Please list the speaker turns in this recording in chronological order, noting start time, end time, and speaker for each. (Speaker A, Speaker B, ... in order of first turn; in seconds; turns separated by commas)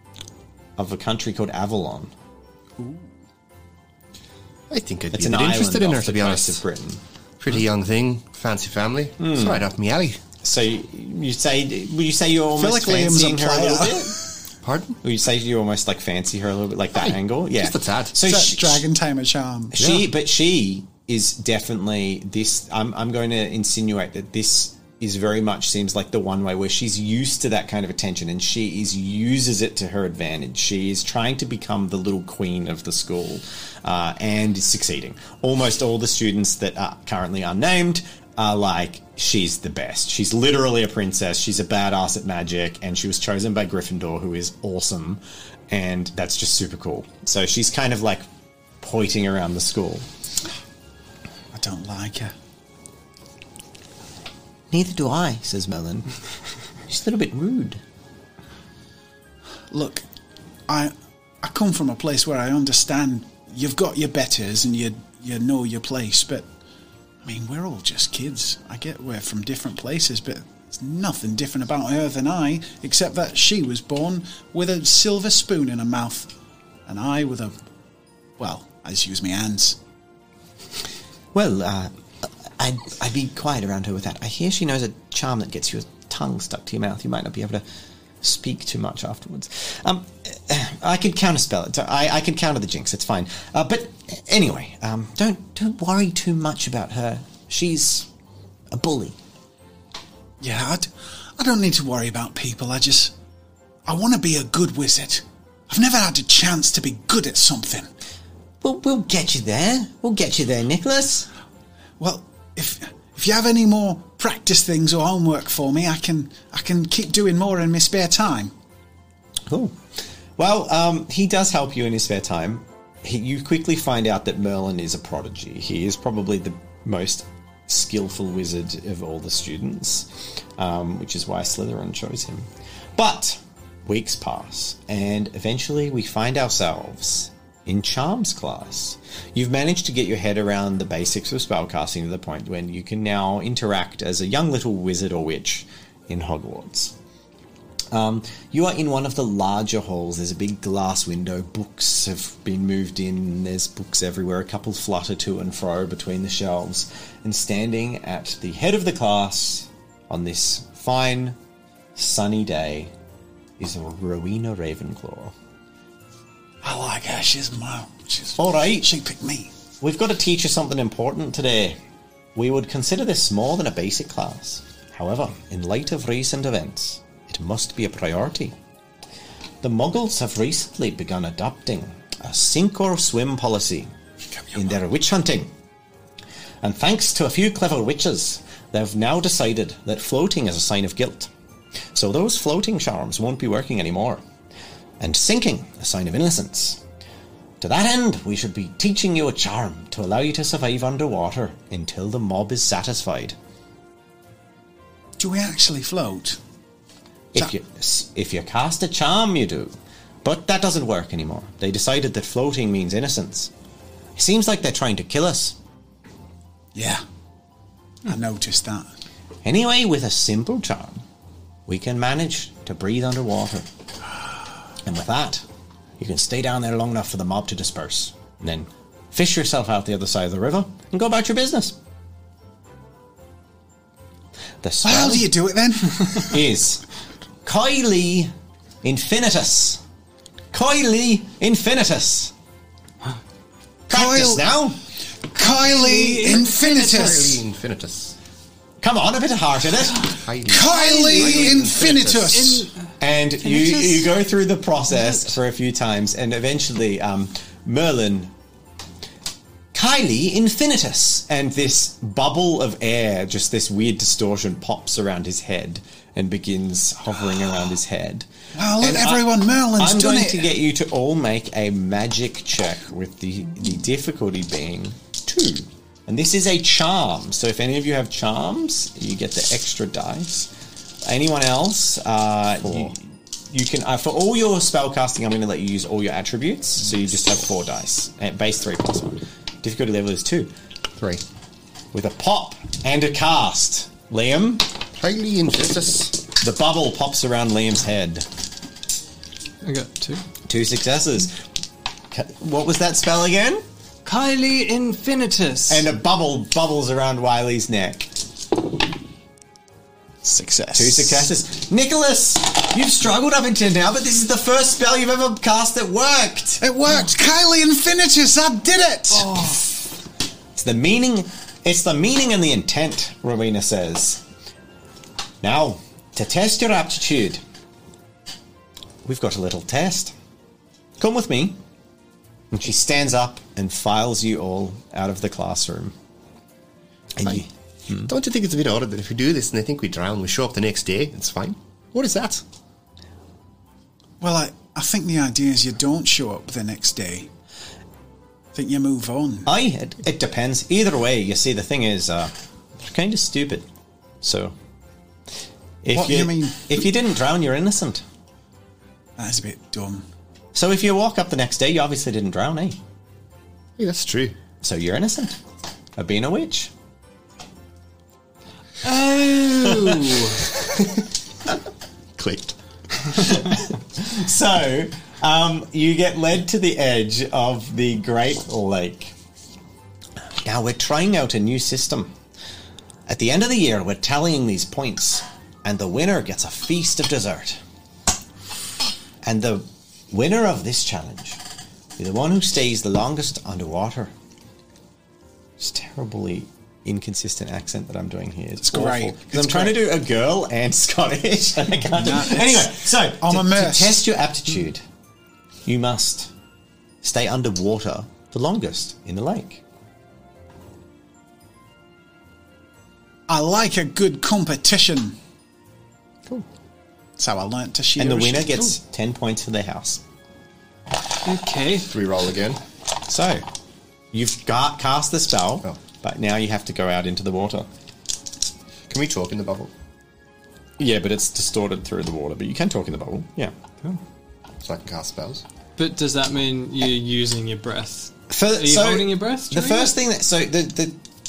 Speaker A: 0.8-2.1, Speaker B: 2.8-3.1, Speaker C: 4.7-6.6, Speaker A: 5.1-7.0, Speaker C: 7.4-10.2, Speaker A: 9.2-9.6, Speaker A: 10.4-14.2, Speaker B: 12.5-14.2, Speaker C: 14.6-15.0, Speaker A: 15.0-18.9, Speaker C: 16.9-18.1, Speaker B: 18.2-19.8, Speaker A: 19.7-48.2, Speaker C: 19.8-20.1, Speaker A: 48.8-50.0, Speaker B: 51.5-52.3, Speaker A: 54.7-56.1, Speaker A: 56.9-57.8, Speaker B: 59.7-60.0, Speaker B: 60.7-66.5, Speaker B: 67.2-76.3, Speaker B: 76.9-77.5, Speaker B: 78.4-79.8, Speaker A: 81.3-81.9, Speaker A: 82.6-87.6, Speaker A: 88.2-98.1, Speaker A: 98.7-99.2, Speaker B: 100.4-103.1, Speaker B: 103.9-107.9, Speaker A: 108.6-111.3, Speaker B: 112.0-118.5, Speaker A: 119.5-119.7, Speaker A: 120.4-146.9, Speaker A: 147.9-161.4, Speaker A: 161.9-162.9, Speaker A: 163.6-165.3, Speaker B: 166.6-169.5, Speaker A: 168.4-168.9, Speaker A: 169.8-171.8, Speaker A: 172.3-178.5, Speaker A: 179.6-183.9, Speaker A: 184.5-185.5, Speaker A: 186.6-191.3, Speaker A: 191.9-194.2, Speaker A: 195.0-196.8, Speaker A: 197.6-203.3, Speaker B: 205.2-206.4, Speaker A: 207.3-213.5, Speaker A: 214.2-215.6, Speaker B: 216.8-217.0, Speaker B: 218.0-218.9, Speaker A: 219.4-221.0, Speaker A: 221.7-223.7, Speaker A: 224.8-225.4, Speaker A: 226.0-231.8, Speaker A: 234.6-235.3, Speaker B: 234.8-236.3, Speaker A: 236.2-236.8, Speaker A: 237.4-238.3, Speaker A: 238.8-239.8, Speaker A: 240.5-242.3, Speaker B: 243.9-244.5, Speaker A: 243.9-244.8, Speaker B: 245.3-247.4, Speaker D: 245.7-247.3, Speaker C: 246.4-248.2, Speaker A: 248.8-250.1, Speaker C: 250.2-252.4, Speaker B: 250.4-252.7, Speaker D: 250.6-252.7, Speaker A: 253.0-258.3, Speaker D: 253.4-254.1, Speaker D: 254.9-255.2, Speaker A: 259.7-268.3, Speaker B: 268.5-270.5, Speaker A: 268.8-280.5, Speaker A: 281.0-283.0, Speaker C: 282.6-282.9, Speaker A: 283.5-290.5, Speaker C: 291.0-291.2, Speaker A: 291.9-294.6, Speaker C: 295.0-296.2, Speaker A: 296.4-298.3, Speaker D: 299.6-300.2, Speaker A: 300.5-301.3, Speaker A: 302.1-303.6, Speaker D: 304.0-305.9, Speaker A: 305.7-308.1, Speaker B: 310.2-311.3, Speaker A: 310.8-316.6, Speaker B: 316.6-319.6, Speaker A: 320.5-324.2, Speaker A: 325.4-327.4, Speaker A: 329.0-330.1, Speaker A: 331.0-331.6, Speaker A: 332.5-335.9, Speaker A: 337.1-338.1, Speaker C: 338.0-342.4, Speaker B: 344.2-347.3, Speaker B: 348.5-349.5, Speaker A: 349.4-353.6, Speaker A: 354.2-354.5, Speaker A: 355.8-358.0, Speaker B: 355.9-356.8, Speaker B: 359.2-360.0, Speaker A: 360.5-362.8, Speaker C: 363.8-364.4, Speaker A: 364.6-365.4, Speaker A: 365.9-366.7, Speaker D: 368.8-370.5, Speaker C: 370.8-371.0, Speaker C: 372.1-372.5, Speaker A: 373.1-379.1, Speaker A: 380.4-382.1, Speaker A: 383.1-387.6, Speaker A: 389.2-391.4, Speaker A: 392.0-394.1, Speaker A: 395.6-404.8, Speaker B: 398.6-399.8, Speaker B: 401.9-404.0, Speaker A: 405.6-406.3, Speaker A: 407.0-409.6, Speaker B: 413.3-415.2, Speaker B: 417.2-418.8, Speaker A: 418.0-420.0, Speaker D: 421.2-421.9, Speaker C: 421.9-422.6, Speaker A: 423.1-423.4, Speaker A: 424.1-427.7, Speaker C: 428.9-429.7, Speaker A: 430.8-433.5, Speaker C: 434.6-435.4, Speaker D: 435.8-440.0, Speaker A: 438.3-441.0